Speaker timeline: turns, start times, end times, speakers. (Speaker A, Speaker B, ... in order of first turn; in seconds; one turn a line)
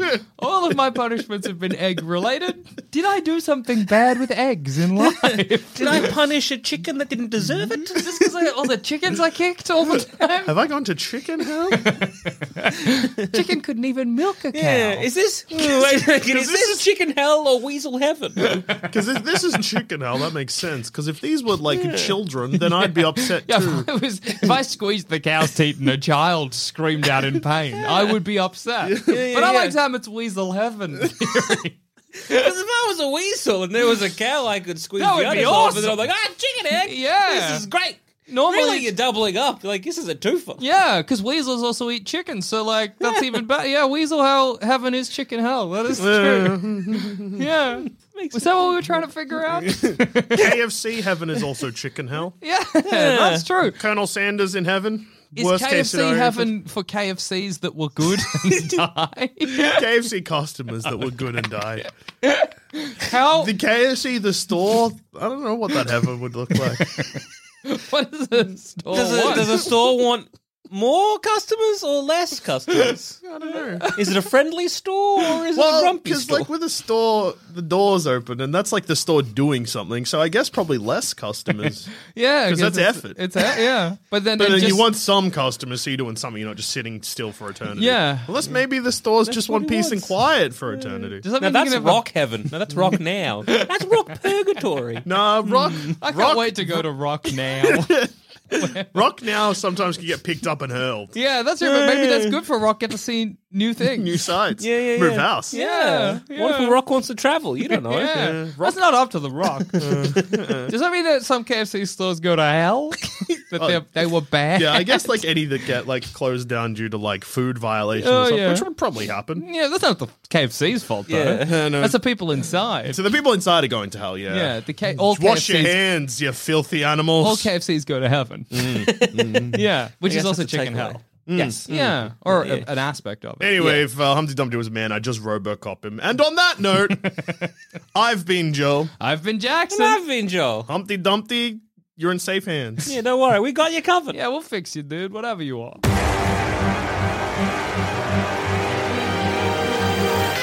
Speaker A: 0.4-6.1
Speaker B: 5.1-8.0
Speaker A: 7.9-10.5
Speaker C: 10.5-11.9
Speaker A: 11.8-15.1
Speaker B: 14.5-18.7
Speaker C: 16.2-16.8
Speaker C: 18.8-23.9
Speaker B: 21.7-22.2
Speaker A: 22.8-31.8
Speaker C: 28.9-29.2
Speaker B: 29.1-29.8
Speaker B: 32.3-40.6
Speaker A: 35.0-36.1
Speaker A: 36.9-37.7
Speaker A: 38.3-38.9
Speaker A: 40.6-46.7
Speaker C: 46.0-47.4
Speaker A: 47.4-50.5
Speaker B: 48.1-49.0
Speaker C: 49.9-52.4
Speaker A: 52.4-53.8
Speaker B: 52.9-53.5
Speaker C: 53.8-56.5
Speaker A: 55.4-59.8
Speaker C: 59.6-61.9
Speaker A: 61.8-63.5
Speaker C: 63.4-67.2
Speaker A: 66.8-69.7
Speaker B: 68.9-73.2
Speaker C: 73.2-73.9
Speaker A: 73.5-74.1
Speaker B: 74.0-76.5
Speaker C: 75.5-83.6
Speaker A: 82.1-84.9
Speaker C: 84.3-91.2
Speaker A: 87.8-88.3
Speaker B: 89.3-90.2
Speaker B: 90.7-96.0
Speaker A: 91.2-92.1
Speaker C: 95.0-101.1
Speaker A: 96.0-98.0
Speaker A: 98.6-99.0
Speaker A: 101.1-104.2
Speaker B: 101.6-102.3
Speaker C: 103.8-105.5
Speaker B: 104.6-108.3
Speaker A: 105.5-106.8
Speaker A: 107.9-109.8
Speaker C: 108.1-108.8
Speaker C: 109.8-110.7
Speaker B: 110.0-110.3
Speaker A: 110.7-115.2
Speaker C: 114.5-119.5
Speaker A: 118.0-118.7
Speaker A: 119.4-123.0
Speaker B: 121.1-121.6
Speaker C: 121.4-122.0
Speaker C: 122.9-127.5
Speaker A: 124.3-125.8
Speaker A: 127.2-131.0
Speaker C: 128.5-129.6
Speaker B: 130.1-131.7
Speaker C: 131.3-132.0
Speaker A: 131.7-133.8
Speaker B: 132.3-132.7
Speaker C: 133.4-137.1
Speaker A: 137.0-137.4
Speaker C: 137.9-138.9
Speaker A: 139.0-140.0
Speaker B: 139.7-140.7
Speaker C: 140.7-142.9
Speaker B: 142.9-144.2
Speaker A: 144.1-145.8